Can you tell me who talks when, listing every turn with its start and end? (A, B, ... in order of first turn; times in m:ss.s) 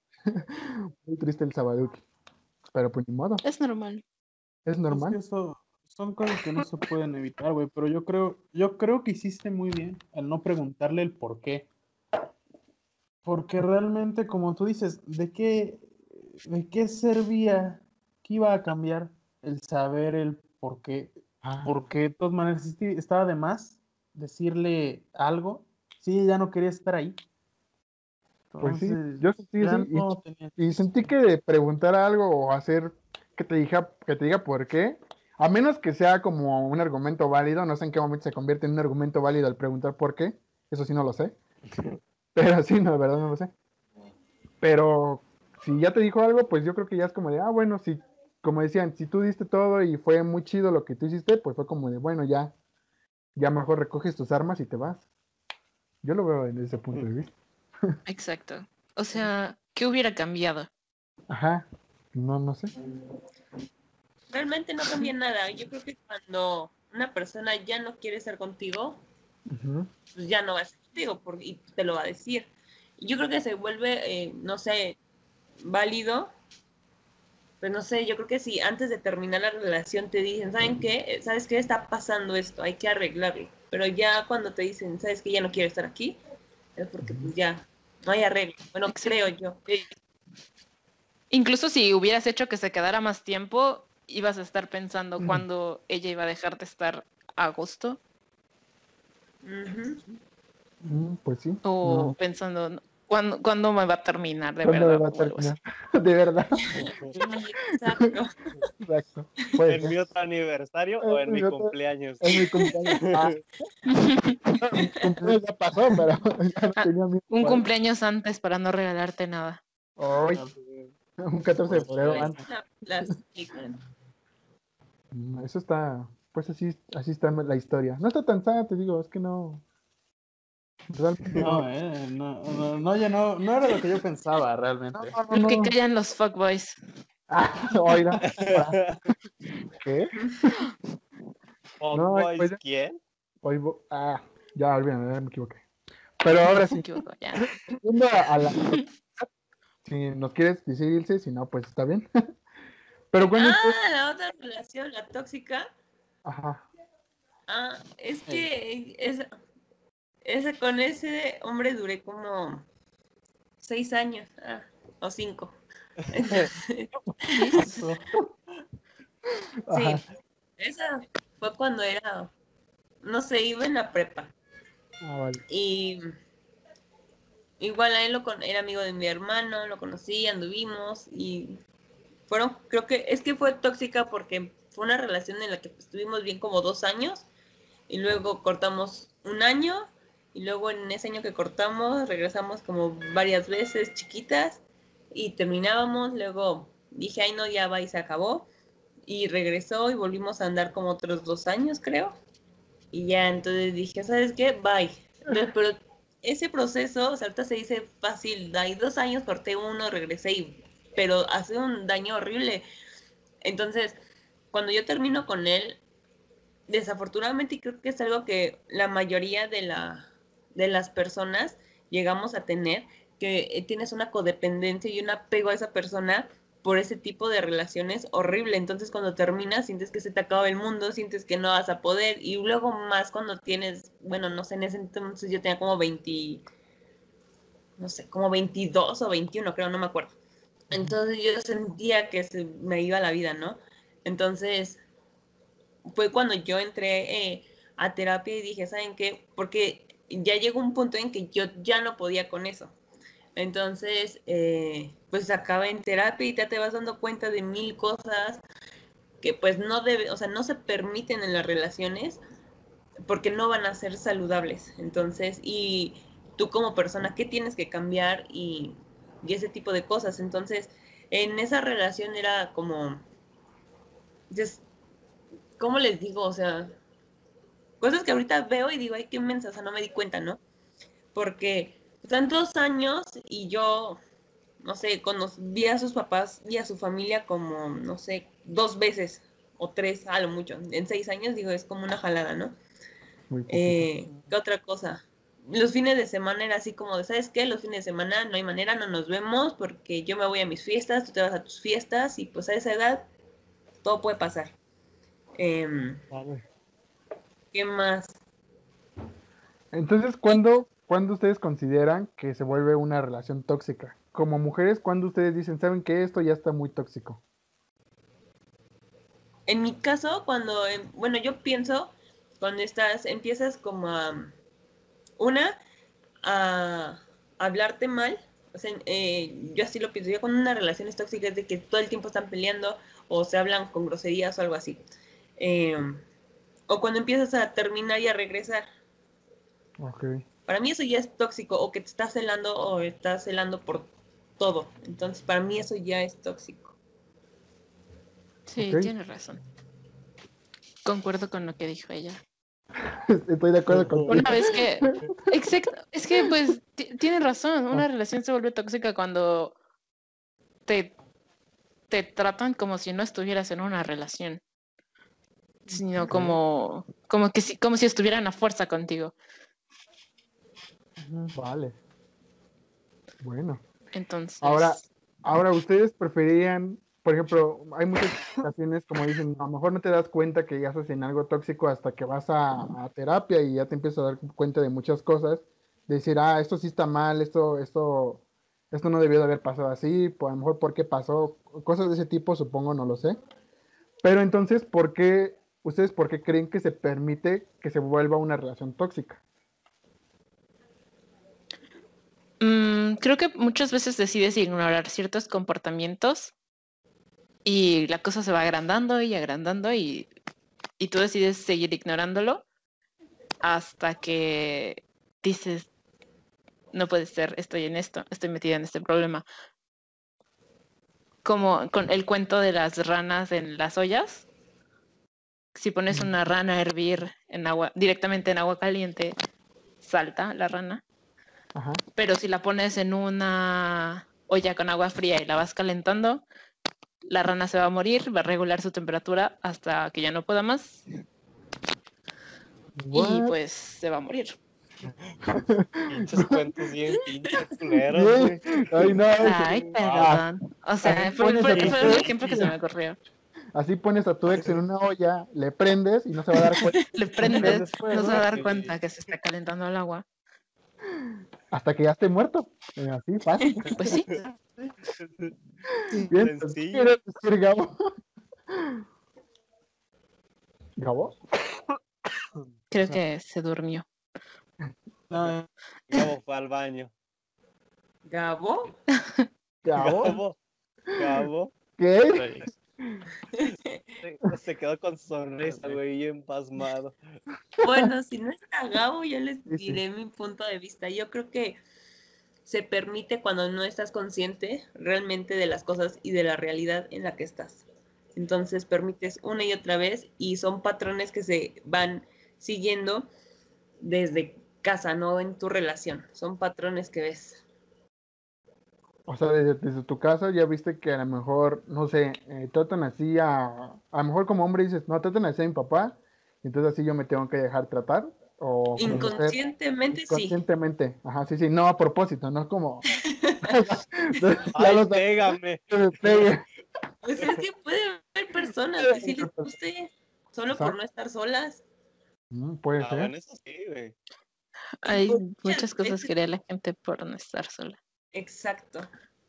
0:00.3-0:02.0 A
0:02.7-0:03.4 A
0:03.4-0:04.0 B
0:04.6-0:05.2 A
0:04.9-0:11.7 C
0:13.2-0:15.9 C
0:16.4-0:27.2 C
0:21.4-0:21.7 A
0:28.5-0:30.6 C
0:28.6-0:41.4 A
0:42.3-0:43.5 A
0:44.6-0:52.5 A
0:53.4-0:55.0 A
0:56.0-0:57.3 A
0:58.1-1:00.7 B
1:01.3-1:02.7 A
1:04.3-1:09.0 D
1:09.5-1:09.9 A
1:10.1-1:15.0 D
1:15.6-1:16.3 D
1:17.6-1:26.2 D
1:26.8-1:29.6 D
1:27.0-1:27.3 A
1:28.9-1:29.1 B
1:31.3-1:38.0 B
1:39.4-1:40.0 D
1:40.8-1:42.2 A
1:41.6-1:45.5 B
1:44.6-1:46.8 A
1:46.7-1:48.6 D
1:48.8-1:49.9 A
1:49.7-1:52.2 E
1:51.0-1:53.4 A
1:52.3-1:53.0 D
1:53.1-1:53.4 E
1:53.8-1:54.6 B
1:54.6-1:57.6 A
1:56.8-1:59.6 B
2:00.0-2:00.4 A
2:00.6-2:00.9 E
2:01.2-2:02.4 A
2:01.7-2:02.3 C
2:02.0-2:03.8 D
2:05.1-2:09.6 A
2:10.9-2:11.6 A
2:11.4-2:15.2 C
2:14.9-2:15.7 A
2:15.3-2:16.8 B
2:17.3-2:19.1 A
2:18.2-2:19.0 E
2:19.7-2:20.1 A
2:21.8-2:23.0 E
2:21.9-2:22.6 A
2:23.4-2:25.6 A
2:26.2-2:26.8 A
2:26.5-2:27.6 B
2:27.4-2:29.3 A
2:28.6-2:28.8 B
2:29.8-2:32.1 A
2:33.1-2:33.8 A
2:33.2-2:35.7 D
2:36.2-2:36.6 A
2:37.5-2:39.3 D
2:40.2-2:42.6 D
2:43.6-2:45.6 D
2:46.1-2:47.4 D
2:47.3-2:47.8 B
2:47.5-2:48.3 C
2:49.7-2:50.0 A
2:49.7-2:50.0 D
2:50.6-2:52.3 D
2:53.0-2:54.3 D
2:55.0-2:55.4 A
2:55.5-2:56.0 D
2:57.6-3:01.6 D
3:02.3-3:07.3 D
3:07.9-3:14.6 D
3:15.1-3:18.5 D
3:19.0-3:22.1 D
3:22.9-3:32.6 D
3:33.4-3:34.0 D
3:34.5-3:35.8 D
3:36.7-3:56.4 D
3:57.8-4:00.2 D
4:00.7-4:04.8 D
4:05.9-4:12.7 D
4:13.4-4:18.4 D
4:19.2-4:22.2 D
4:23.0-4:33.0 D
4:34.3-4:34.6 D
4:35.6-4:36.7 D
4:37.8-4:40.4 D
4:41.1-4:44.0 D
4:44.6-4:52.6 D
4:53.3-4:53.9 A
4:53.5-5:03.1 D
5:03.8-5:04.5 D
5:05.4-5:06.0 D
5:06.1-5:06.4 A
5:07.5-5:08.2 D
5:09.7-5:17.2 A
5:19.5-5:24.3 D
5:25.2-5:25.6 D
5:26.2-5:34.8 D
5:35.4-5:36.0 D
5:36.7-5:38.6 D
5:39.8-5:40.2 A
5:40.5-5:46.7 D
5:48.5-5:49.4 B
5:48.6-5:48.9 A
5:50.8-5:52.2 B
5:52.9-5:54.9 A
5:54.1-5:59.5 B
6:00.6-6:00.9 B
6:01.9-6:04.4 B
6:05.7-6:09.1 B
6:06.1-6:06.3 A
6:11.0-6:11.4 C
6:11.3-6:11.7 A
6:13.2-6:13.6 A
6:13.9-6:14.8 B
6:14.4-6:33.2 A
6:34.0-6:39.2 A
6:42.4-6:46.3 B
6:47.4-6:50.1 B
6:50.8-6:52.4 B
6:53.4-6:55.7 B
6:56.7-6:59.2 B
7:01.2-7:04.2 B
7:05.6-7:09.1 B
7:09.8-7:10.8 B
7:11.5-7:11.8 A
7:12.0-7:16.2 B
7:17.0-7:20.8 B
7:22.8-7:23.3 A
7:22.9-7:24.4 B
7:25.3-7:26.2 A
7:25.9-7:28.6 E
7:27.9-7:30.2 A
7:29.2-7:33.0 B
7:29.8-7:30.2 C
7:30.8-7:32.5 A
7:31.4-7:32.5 C
7:33.5-7:36.8 A
7:36.8-7:40.0 B
7:37.3-7:38.8 C
7:41.5-7:43.7 A
7:43.6-7:44.8 C
7:43.6-7:44.1 B
7:45.0-7:45.3 E
7:46.1-7:47.8 A
7:46.1-7:46.9 E
7:48.5-7:48.8 A
7:50.8-7:51.2 A
7:52.7-7:53.8 B
7:55.1-7:55.5 C
7:55.9-7:56.9 E
7:58.1-7:58.8 D
7:59.6-8:00.2 A
7:59.8-8:00.4 E
8:00.9-8:01.5 E
8:01.8-8:03.0 A
8:02.1-8:02.5 C
8:04.0-8:07.0 E
8:05.4-8:05.8 C
8:07.6-8:11.6 D
8:09.5-8:09.8 A
8:12.4-8:17.6 D
8:18.1-8:23.1 D
8:23.8-8:27.4 D
8:29.0-8:39.4 A
8:38.8-8:40.4 D
8:39.9-8:42.9 A
8:43.0-8:43.6 D
8:43.4-8:45.2 A
8:44.5-8:46.2 E
8:45.7-8:46.4 A
8:47.0-8:51.6 D
8:48.8-8:49.5 A
8:50.5-8:50.8 A
8:52.3-8:53.1 A
8:52.8-8:53.9 E
8:54.8-8:57.8 B
8:54.8-8:56.1 D
8:58.1-8:58.9 D